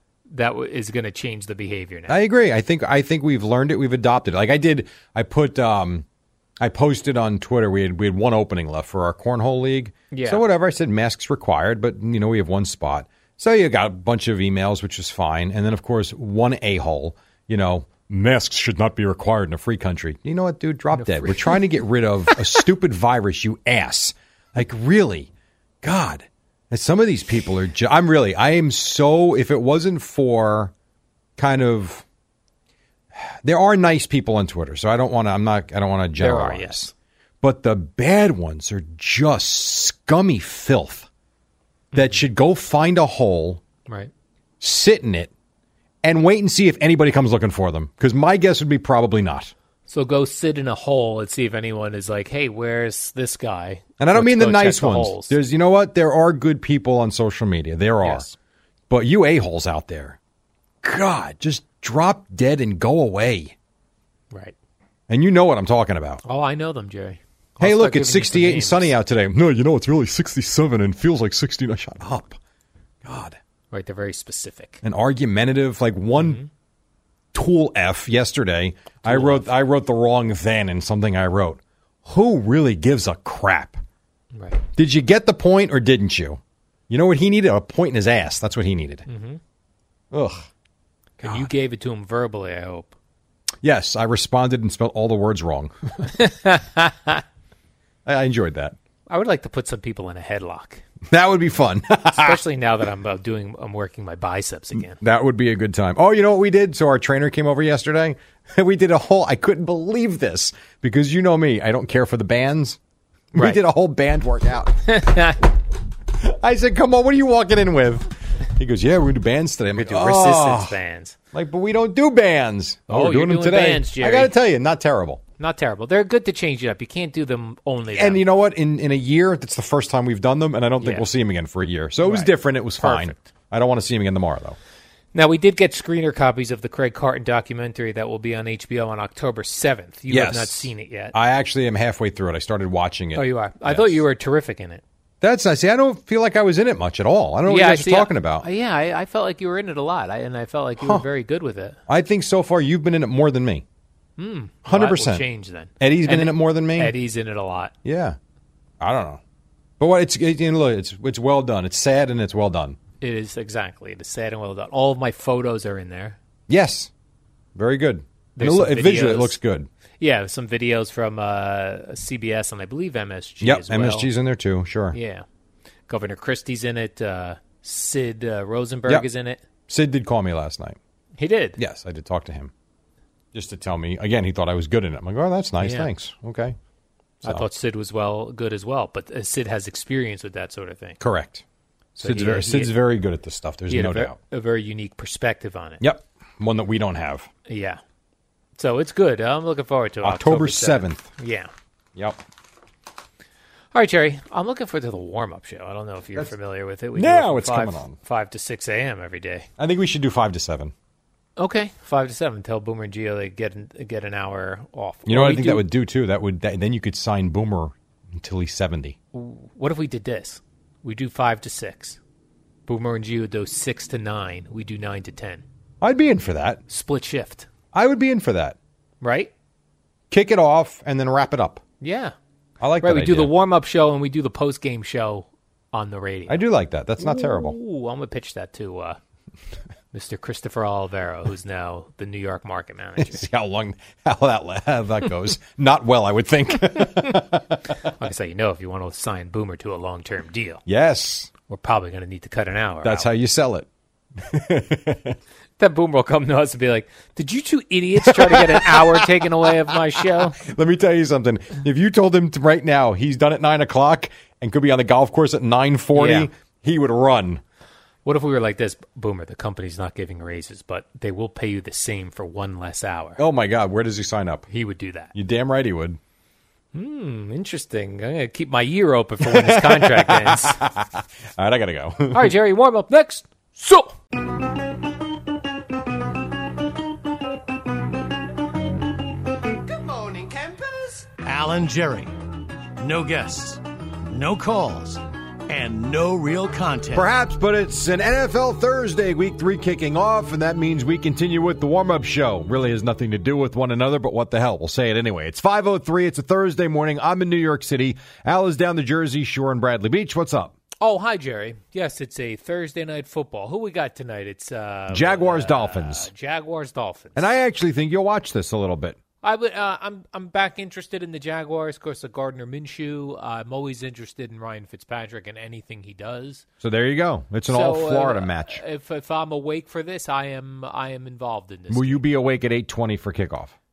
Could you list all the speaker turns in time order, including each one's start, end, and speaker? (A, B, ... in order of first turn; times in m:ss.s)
0:00.3-0:02.2 A
0:02.1-0:06.0 B
0:06.6-0:25.3 B
0:10.1-0:10.4 A
0:20.9-0:21.6 A
0:22.3-0:22.6 A
0:25.8-0:30.7 B
0:31.4-0:32.0 B
0:33.1-0:36.9 B
0:36.2-0:36.9 A
0:37.4-0:41.1 B
0:41.9-0:42.2 A
0:41.9-0:43.6 B
0:44.6-0:45.3 B
0:46.0-0:49.5 B
0:49.9-0:55.4 A
0:54.0-0:58.2 B
0:58.0-0:58.3 A
0:58.9-1:00.2 B
1:00.8-1:03.5 B
1:05.1-1:06.2 B
1:06.2-1:08.9 A
1:07.6-1:12.4 B
1:13.0-1:13.4 B
1:13.7-1:14.8 A
1:14.8-1:16.4 B
1:16.2-1:16.5 A
1:17.3-1:23.8 B
1:19.0-1:19.4 A
1:24.3-1:24.6 A
1:24.7-1:29.0 B
1:29.1-1:29.4 A
1:30.1-1:30.5 B
1:31.2-1:31.5 B
1:31.2-1:32.9 A
1:33.6-1:36.1 B
1:36.1-1:37.2 A
1:38.0-1:38.8 B
1:39.1-1:40.8 A
1:41.1-1:42.4 B
1:42.1-1:45.0 A
1:44.9-1:52.8 B
1:53.3-1:54.8 B
1:53.3-1:53.6 A
1:54.9-1:55.4 A
1:56.2-2:00.8 B
1:59.8-2:01.2 A
2:01.3-2:05.2 B
2:02.9-2:04.3 A
2:05.4-2:08.2 A
2:07.9-2:14.6 B
2:10.8-2:11.1 A
2:12.0-2:13.2 A
2:15.1-2:21.1 A
2:20.1-2:24.0 B
2:23.1-2:24.8 A
2:25.2-2:28.4 B
2:27.4-2:31.8 A
2:30.8-2:31.0 B
2:31.9-2:33.6 B
2:34.2-2:37.7 A
2:34.6-2:35.2 B
2:35.8-2:37.0 B
2:37.8-2:38.2 B
2:38.8-2:39.2 B
2:39.8-2:42.8 B
2:43.0-2:46.2 A
2:46.5-2:46.9 B
2:47.5-2:49.7 B
2:48.4-2:49.4 A
2:50.0-2:54.1 A
2:53.4-2:55.0 B
2:54.9-2:55.2 A
2:55.9-2:59.4 A
2:59.7-3:00.8 B
3:01.2-3:01.6 A
3:01.6-3:02.5 B
3:03.3-3:06.6 B
3:05.6-3:05.9 A
3:07.2-3:11.0 A
3:11.0-3:11.4 B
3:12.0-3:14.2 B
3:12.0-3:12.7 A
3:13.7-3:15.8 A
3:15.8-3:17.3 B
3:17.5-3:17.8 A
3:18.6-3:21.5 A
3:20.0-3:21.1 B
3:22.0-3:22.2 B
3:23.7-3:29.5 A
3:26.9-3:28.0 B
3:29.6-3:30.7 B
3:31.4-3:35.7 A
3:35.0-3:39.0 B
3:39.1-3:42.0 A
3:42.7-3:45.4 A
3:45.8-3:46.6 B
3:46.7-3:47.5 A
3:47.7-3:48.6 B
3:49.0-3:49.3 A
3:50.1-3:51.6 B
3:51.8-3:52.1 A
3:52.6-3:53.3 B
3:52.8-3:56.4 A
3:56.3-3:57.6 B
3:57.0-3:59.0 A
3:59.9-4:03.3 A
4:03.0-4:07.6 B
4:08.0-4:10.6 A
4:10.6-4:11.3 B
4:11.5-4:13.1 A
4:12.8-4:15.2 B
4:15.6-4:20.4 A
4:18.0-4:27.4 B
4:25.9-4:26.3 A
4:28.0-4:33.2 A
4:33.2-4:34.4 B
4:34.5-4:35.1 A
4:35.1-4:36.0 B
4:36.7-4:40.6 A
4:39.2-4:42.3 B
4:42.1-4:43.9 A
4:49.7-4:52.1 C
4:52.8-4:57.1 C
4:56.9-5:10.5 B
5:10.8-5:17.2 A
5:14.9-5:16.1 B
5:17.1-5:19.0 B
5:19.2-5:26.4 A
5:26.6-5:28.6 B
5:27.5-5:32.0 A
5:31.7-5:33.5 B